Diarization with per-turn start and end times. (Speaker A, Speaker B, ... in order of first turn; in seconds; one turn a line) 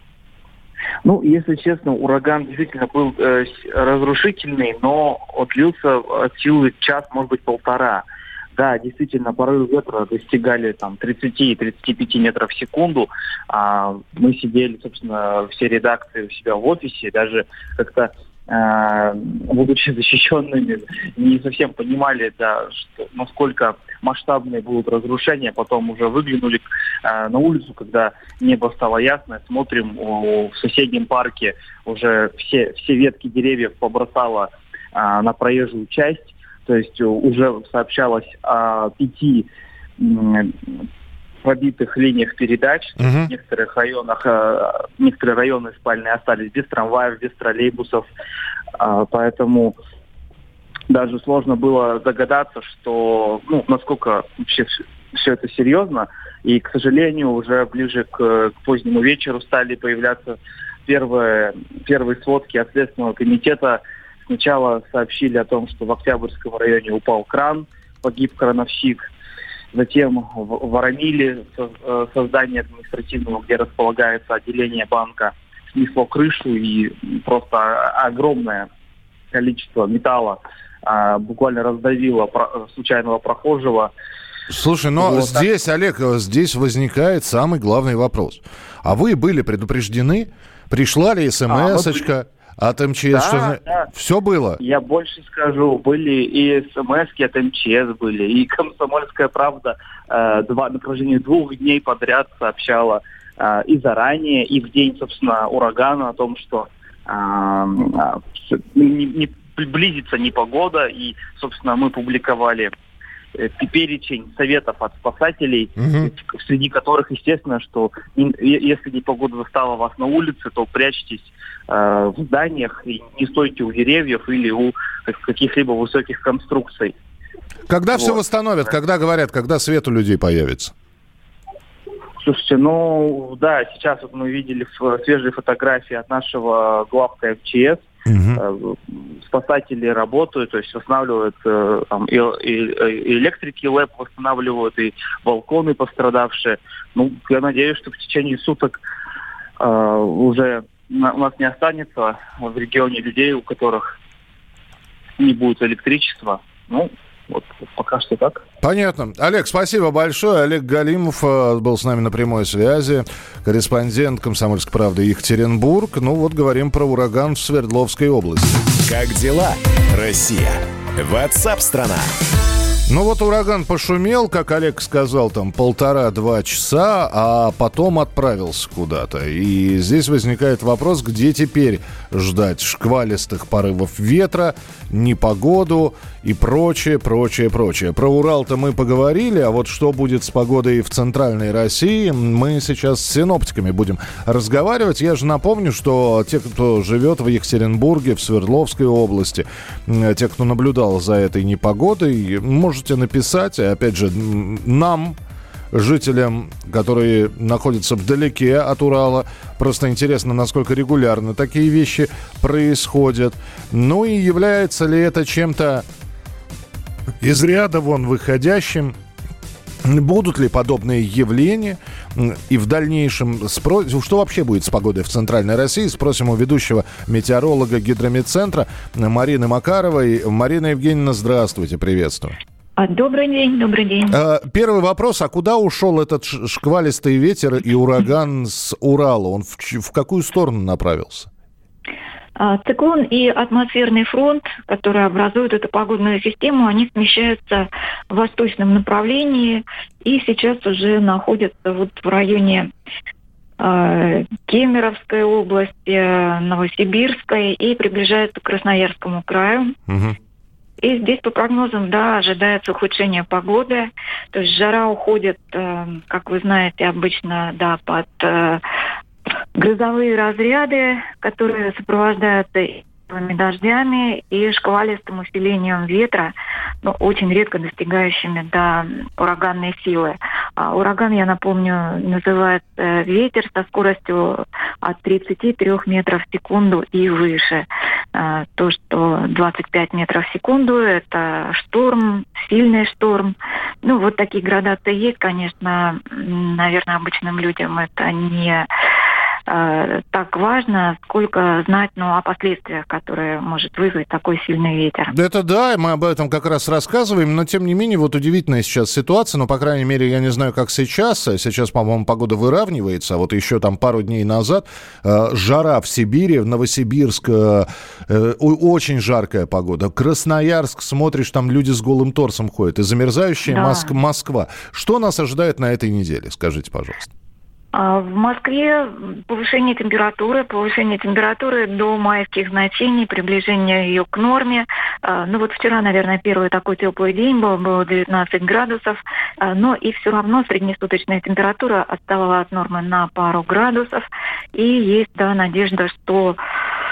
Speaker A: 1.0-39.5
Speaker A: 40.0-40.5
Speaker A: 41.4-48.1
Speaker B: 43.0-43.3
Speaker A: 48.8-49.8
Speaker A: 50.9-69.1
Speaker A: 69.7-78.7
Speaker A: 79.3-83.9
Speaker B: 84.5-94.6
Speaker A: 85.0-85.5
Speaker A: 91.5-92.1
Speaker A: 93.1-93.9
Speaker A: 94.6-112.7
Speaker A: 113.3-126.9
Speaker B: 115.8-116.1
Speaker B: 127.7-130.7
Speaker A: 127.9-128.2
Speaker A: 132.2-148.8
Speaker B: 138.1-138.4
Speaker A: 149.6-153.9
Speaker A: 155.2-158.4
Speaker B: 158.6-168.7
Speaker C: 168.8-172.1
Speaker B: 172.9-205.2
Speaker B: 205.7-215.8
Speaker B: 217.2-218.9
Speaker B: 219.8-232.4
Speaker D: 232.8-234.2
Speaker B: 234.1-241.3
Speaker D: 242.4-252.7
Speaker D: 253.6-259.8
Speaker B: 259.9-260.2
Speaker D: 260.8-268.6
Speaker D: 269.6-298.7
Speaker D: 299.5-305.1
Speaker B: 305.1-327.1
Speaker D: 323.5-323.9
Speaker D: 327.7-346.4